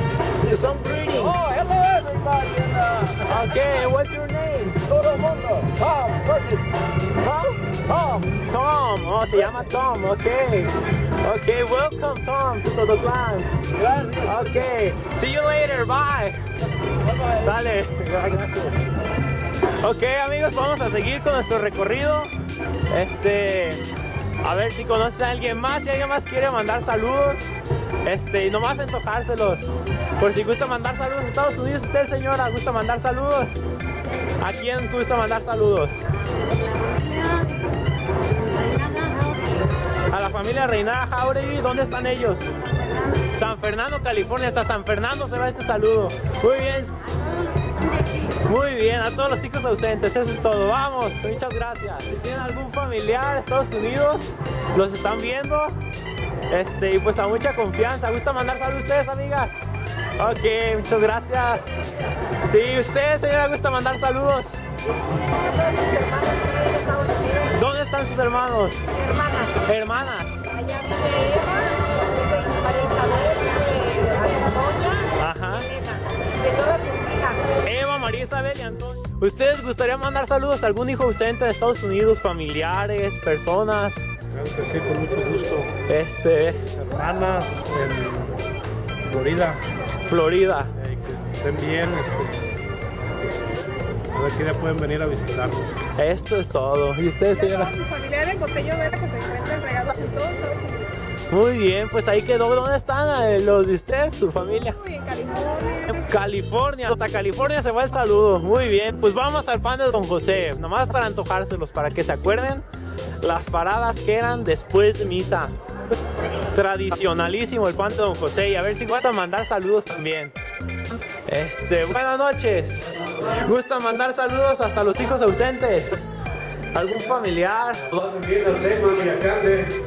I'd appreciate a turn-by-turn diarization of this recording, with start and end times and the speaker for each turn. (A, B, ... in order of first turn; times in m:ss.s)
0:00.4-0:01.6 A
0:01.5-0:03.1 B
0:03.2-0:05.0 A
0:05.0-0:06.6 B
0:07.1-0:16.4 A
0:17.2-0:18.8 A
0:19.8-0:22.3 A
0:22.9-0:23.8 A
0:24.4-0:27.5 A
0:28.0-0:33.6 A
0:34.3-0:36.1 A
0:36.4-0:37.6 C
0:38.3-0:39.6 C
0:40.0-0:47.3 A
0:47.4-0:48.2 C
0:48.2-0:55.8 A
0:56.5-1:01.8 A
1:02.4-1:04.6 A
1:05.3-1:07.5 C
1:07.4-1:09.0 A
1:08.9-1:09.6 C
1:09.6-1:10.5 A
1:10.5-1:17.6 C
1:15.2-1:15.7 A
1:17.5-1:24.0 A
1:24.3-1:25.7 D
1:25.7-1:26.7 A
1:26.8-1:28.4 D
1:29.0-1:29.6 D
1:30.0-1:30.8 A
1:30.8-1:32.5 D
1:34.1-1:35.8 D
1:35.9-1:37.8 A
1:37.6-1:40.9 C
1:41.3-1:44.9 A
1:44.9-1:45.8 C
1:45.8-1:52.6 A
1:53.2-1:55.5 A
1:56.5-2:00.4 A
2:01.2-2:06.1 A
2:06.7-2:09.7 A